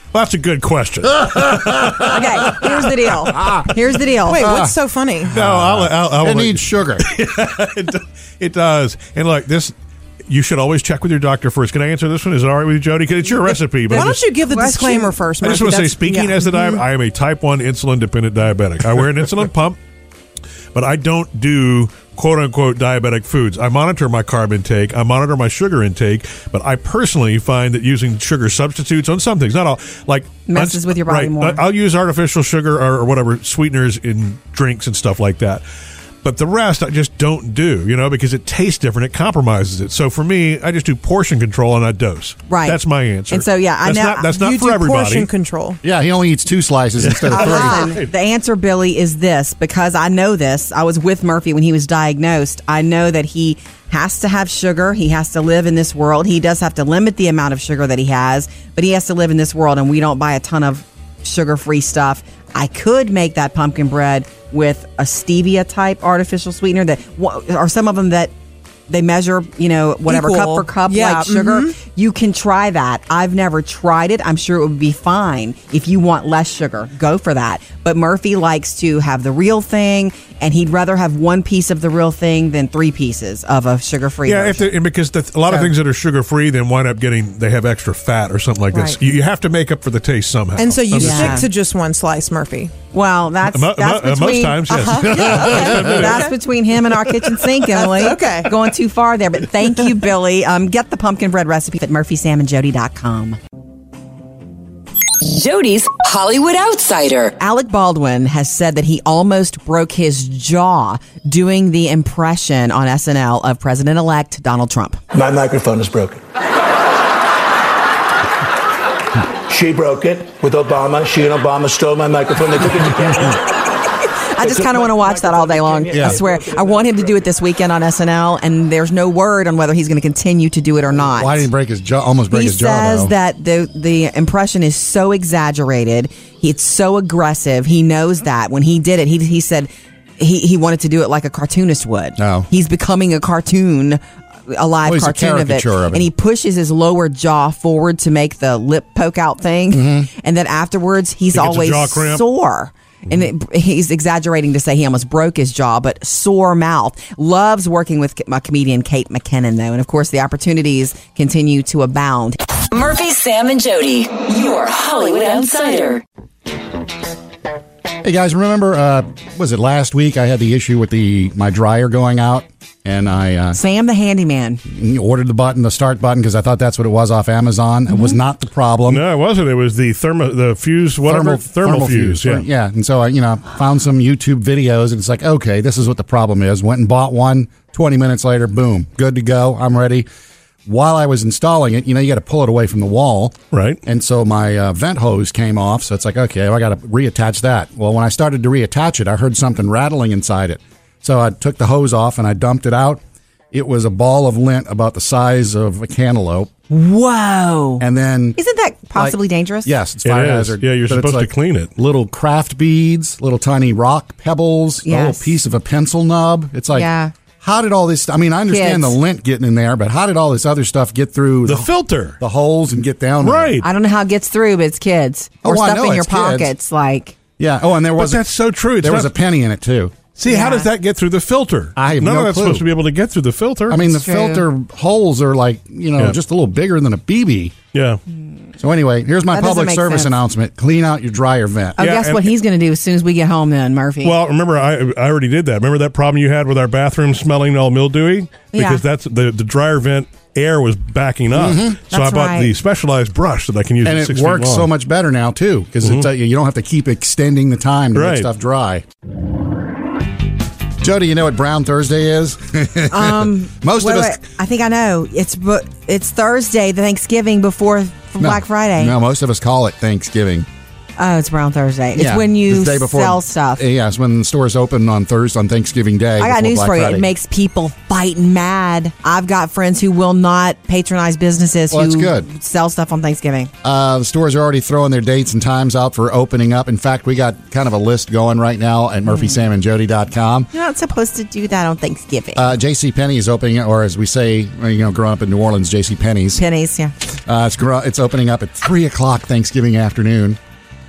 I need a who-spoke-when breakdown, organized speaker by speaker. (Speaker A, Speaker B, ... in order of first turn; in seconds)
Speaker A: 0.1-2.8, 5.3-9.7, 10.3-14.2, 15.4-19.8, 20.7-35.6, 36.2-45.3, 47.0-48.1, 84.2-91.4, 93.5-96.3, 151.3-152.2, 178.9-182.4, 193.5-193.8, 210.0-211.7, 221.4-222.2, 223.2-223.7, 227.9-229.1, 230.2-233.8, 237.7-238.0, 241.8-242.3, 244.0-254.7, 257.9-258.3
Speaker B: 2.0-4.4, 13.9-15.1, 30.5-31.6, 42.5-44.3, 47.3-68.3, 68.9-84.7, 88.7-89.0, 91.0-91.5, 92.9-103.4, 107.4-115.0, 123.9-131.5, 132.3-162.4, 173.5-174.6, 206.7-207.8, 208.4-209.7, 214.8-215.4, 216.7-217.1, 218.5-219.0, 223.6-227.2, 230.2-230.7, 233.8-234.4, 239.3-240.1, 241.8-244.1, 248.5-248.8, 251.9-252.5, 262.9-268.9, 271.0-273.6, 276.2-283.5, 289.1-289.4, 290.5-292.4, 296.4-296.9
Speaker C: 4.2-5.3, 13.9-16.7, 44.4-45.8, 47.4-47.9, 70.1-71.7, 90.6-92.7, 94.7-96.3, 97.7-98.5
Speaker D: 4.4-4.7, 5.3-7.1, 45.8-47.8, 95.2-95.8, 125.9-126.2, 131.1-133.1, 142.2-142.5, 144.8-146.1, 149.7-150.1, 168.0-173.6, 174.7-179.0, 181.1-190.1, 190.7-203.0, 203.5-206.5, 207.8-208.4, 208.9-216.9, 217.4-223.6, 225.4-226.5, 227.4-228.2, 228.8-230.0, 231.8-232.7, 233.7-237.6, 238.6-241.8, 251.3-251.8, 253.8-258.8, 260.8-264.2, 268.2-270.5, 271.9-277.1, 281.7-282.3, 283.6-290.5, 292.3-296.4, 297.3-300.4
Speaker E: 105.2-107.3, 162.7-166.0
Speaker F: 115.1-116.2, 119.5-123.4, 124.4-127.2